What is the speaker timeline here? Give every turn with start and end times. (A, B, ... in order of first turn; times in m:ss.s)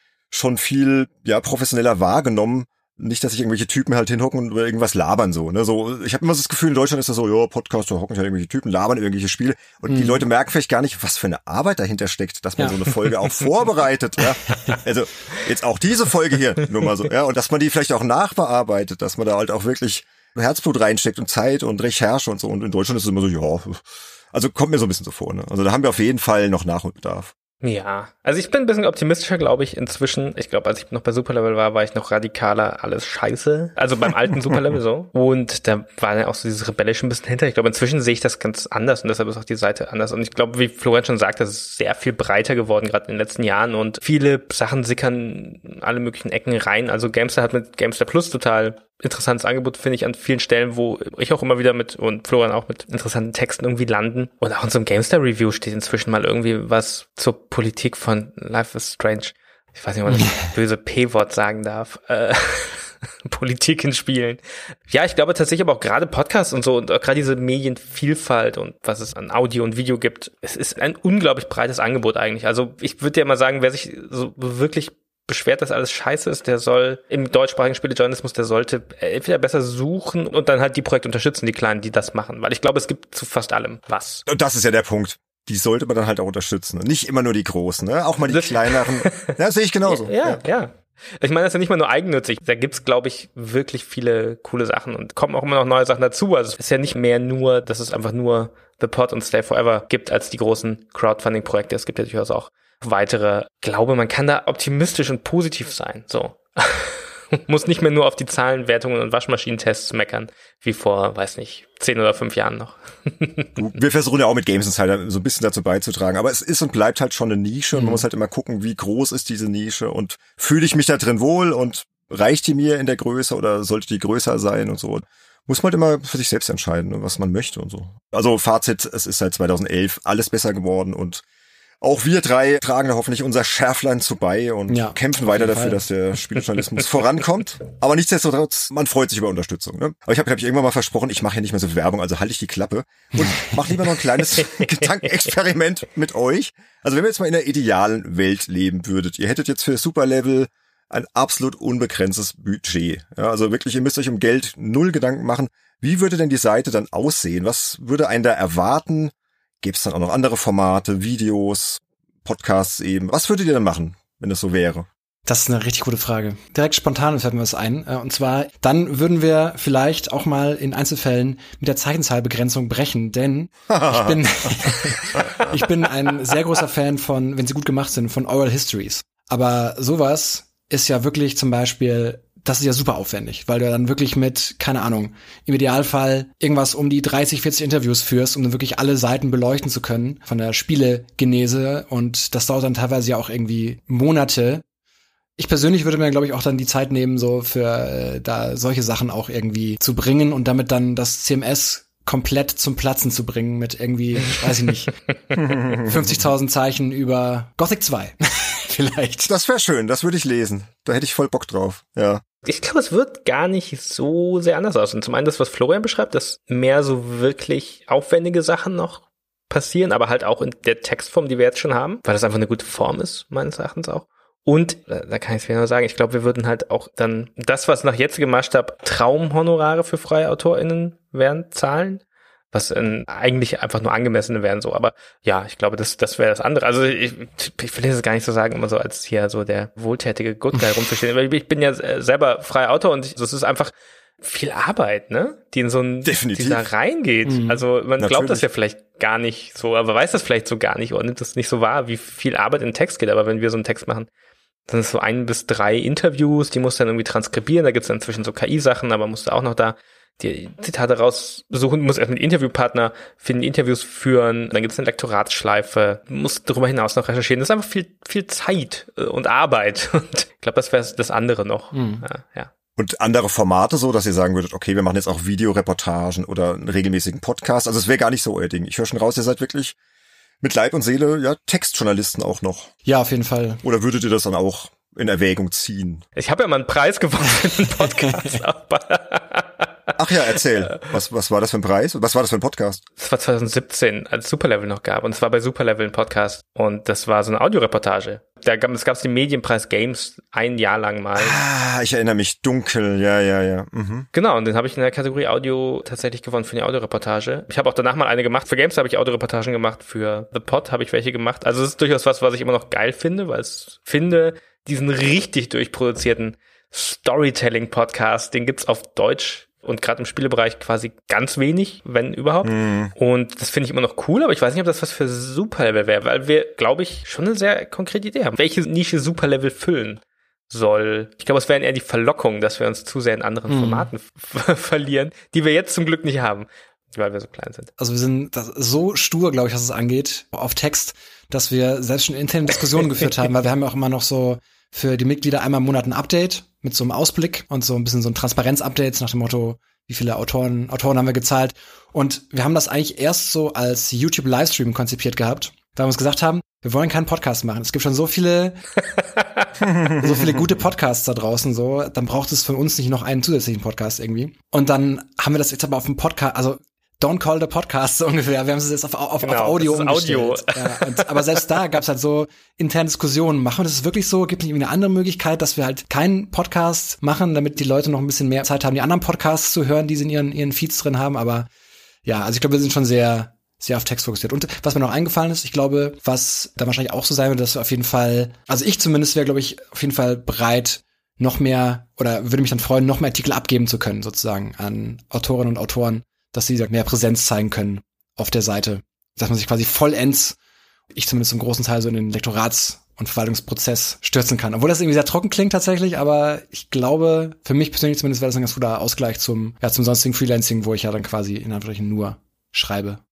0:00.3-0:27.3 A
0:09.9-0:10.2 B
0:12.6-0:13.3 B
0:14.5-0:14.8 B
0:27.6-1:24.2 C
1:00.1-1:00.4 B
1:24.3-1:30.4 A
1:28.3-1:53.6 C
1:53.6-2:11.2 A
1:57.7-1:58.0 B
2:11.8-2:44.9 A
2:14.7-2:15.8 B
2:23.2-2:23.6 B
2:45.2-3:14.6 B
2:53.7-2:55.5 A
3:15.4-3:29.3 B
3:25.4-3:25.9 A
3:29.2-3:32.2 A
3:32.4-4:14.1 C
4:06.0-4:06.6 A
4:07.2-4:07.6 B
4:08.0-4:08.4 A
4:14.7-4:32.5 C
4:31.7-4:32.0 B
4:32.8-4:39.8 A
4:40.4-4:42.7 A
4:42.8-4:43.6 B
4:43.6-4:46.0 A
4:46.2-4:49.7 C
4:48.0-4:48.4 B
4:50.0-4:52.8 A
4:53.0-5:01.4 C
5:01.1-5:04.1 A
5:04.1-5:37.7 C
5:22.4-5:22.9 A
5:33.5-5:33.9 B
5:37.8-5:58.6 B
5:59.0-5:59.5 C
5:59.7-5:59.9 A
5:59.8-6:21.5 B
6:09.2-6:11.2 C
6:22.0-6:40.4 B
6:40.9-6:53.0 B